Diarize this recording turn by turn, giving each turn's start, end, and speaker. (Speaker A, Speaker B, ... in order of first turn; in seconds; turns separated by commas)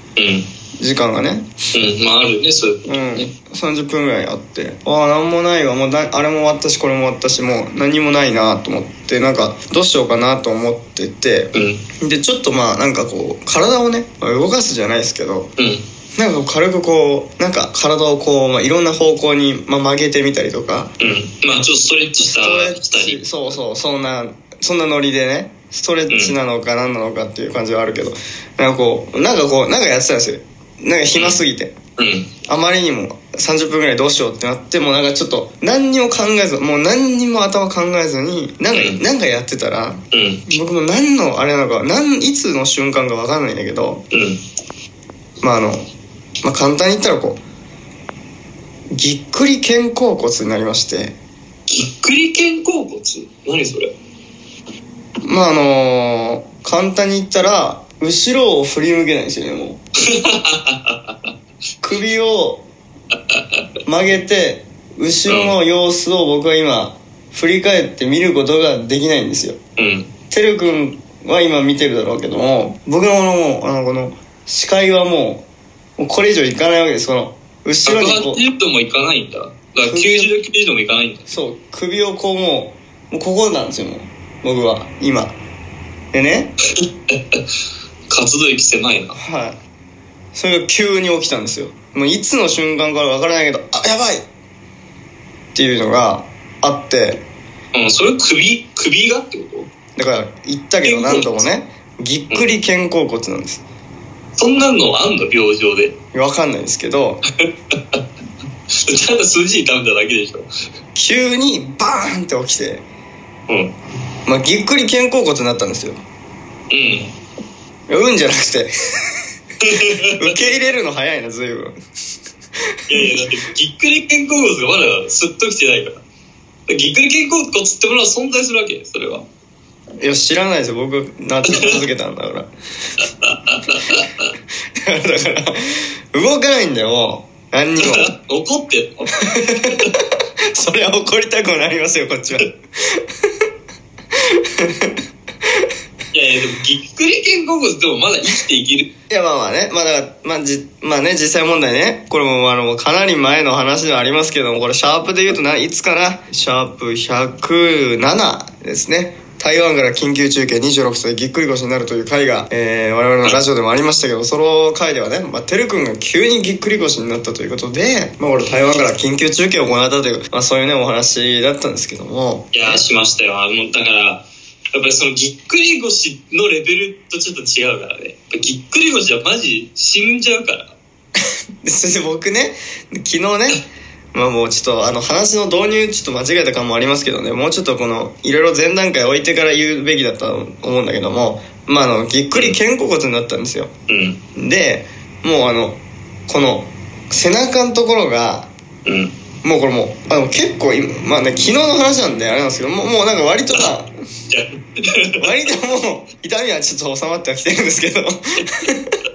Speaker A: 0.2-0.5, Speaker B: 0.8-1.5, Speaker A: 1.7-3.3, Speaker B: 2.9-15.5, Speaker A: 11.5-11.8, Speaker A: 15.6-15.8, Speaker B: 16.2-20.9, Speaker A: 21.0-23.6, Speaker B: 22.2-31.7, Speaker A: 26.1-26.4, Speaker A: 31.1-31.4, Speaker A: 32.0-32.3, Speaker B: 32.5-44.0, Speaker A: 38.7-39.0, Speaker A: 40.1-40.5, Speaker A: 44.1-44.4, Speaker B: 45.4-45.9, Speaker B: 46.4-47.4, Speaker B: 48.9-51.1, Speaker A: 51.7-53.9, Speaker B: 55.3-59.8, Speaker A: 60.1-61.3, Speaker B: 61.8-62.6, Speaker A: 63.3-63.6, Speaker B: 63.9-69.6, Speaker A: 65.3-65.6, Speaker A: 69.8-70.1, Speaker B: 70.3-75.5, Speaker B: 76.0-78.4, Speaker A: 77.9-81.4, Speaker B: 79.8-80.3, Speaker B: 81.3-85.4, Speaker B: 86.1-86.5, Speaker A: 86.8-87.4, Speaker A: 88.1-89.2, Speaker B: 89.1-89.6, Speaker B: 90.3-94.2, Speaker B: 95.5-97.2, Speaker A: 97.7-99.7, Speaker B: 100.0-103.6, Speaker A: 100.8-101.5, Speaker A: 104.4-106.0, Speaker B: 106.1-107.2, Speaker A: 108.8-110.5, Speaker B: 111.0-112.8, Speaker A: 113.5-113.8, Speaker B: 114.3-116.0, Speaker A: 116.7-117.1, Speaker B: 117.9-118.7, Speaker A: 119.6-120.1, Speaker B: 120.2-121.8, Speaker A: 122.9-126.0, Speaker A: 126.7-129.3, Speaker B: 130.0-132.5, Speaker A: 131.5-131.8, Speaker A: 133.0-134.3, Speaker B: 134.8-138.1, Speaker A: 137.8-139.9, Speaker B: 139.2-139.8, Speaker B: 140.5-143.0, Speaker B: 144.6-144.9, Speaker A: 146.1-148.9, Speaker B: 149.1-172.8, Speaker A: 172.5-180.7, Speaker B: 181.6-183.6, Speaker B: 184.1-193.7, Speaker A: 192.3-192.6, Speaker A: 193.9-194.2, Speaker B: 194.4-198.5, Speaker A: 198.9-199.1, Speaker B: 199.4-203.9, Speaker A: 204.3-205.2, Speaker B: 205.2-208.9